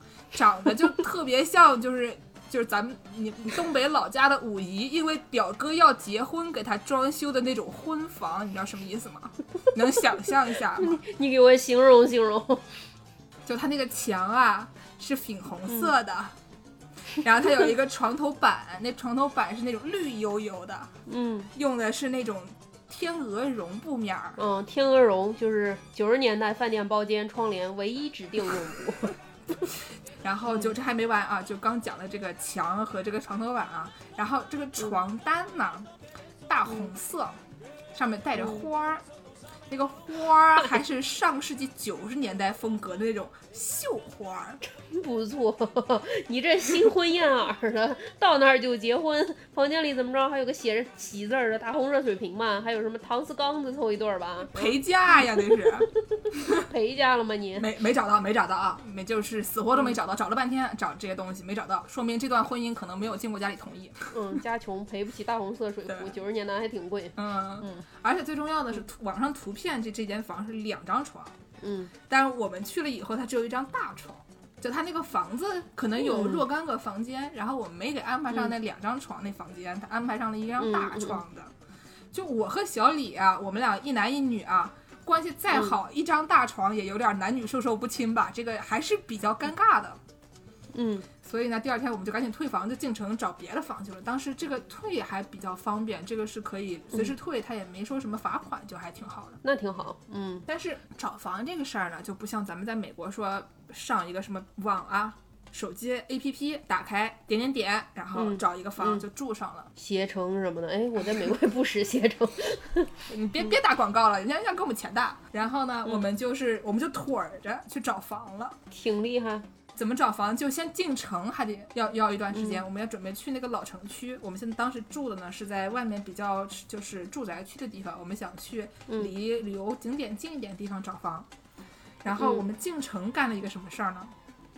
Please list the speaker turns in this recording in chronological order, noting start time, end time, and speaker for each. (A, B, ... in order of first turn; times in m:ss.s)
0:00.3-0:11.0 A
0:10.8-0:12.6 B
0:13.5-0:16.3 A
0:17.2-0:20.9 A
0:21.1-0:21.5 B
0:21.5-0:24.4 A
0:24.4-0:29.2 B
0:30.2-0:35.9 A
0:36.5-0:37.4 A
0:37.9-0:39.0 A
0:39.7-0:44.6 A
0:44.6-0:54.8 B
0:54.5-0:56.6 A
0:55.3-0:57.7 B
0:57.6-1:04.1 A
1:04.1-1:07.8 B
1:05.9-1:06.1 A
1:07.2-1:11.4 A
1:11.6-1:11.9 B
1:12.1-1:21.5 A
1:16.1-1:16.4 B
1:20.6-1:21.2 B
1:22.1-1:30.0 A
1:30.7-1:31.1 B
1:31.2-1:39.4 A
1:39.4-1:40.5 B
1:40.5-1:49.7 A
1:48.1-1:49.0 B
1:49.8-1:52.9 B
1:53.1-1:58.6 A
1:58.7-1:59.5 B
1:59.8-2:11.3 A
2:12.0-2:14.1 A
2:12.1-2:12.4 B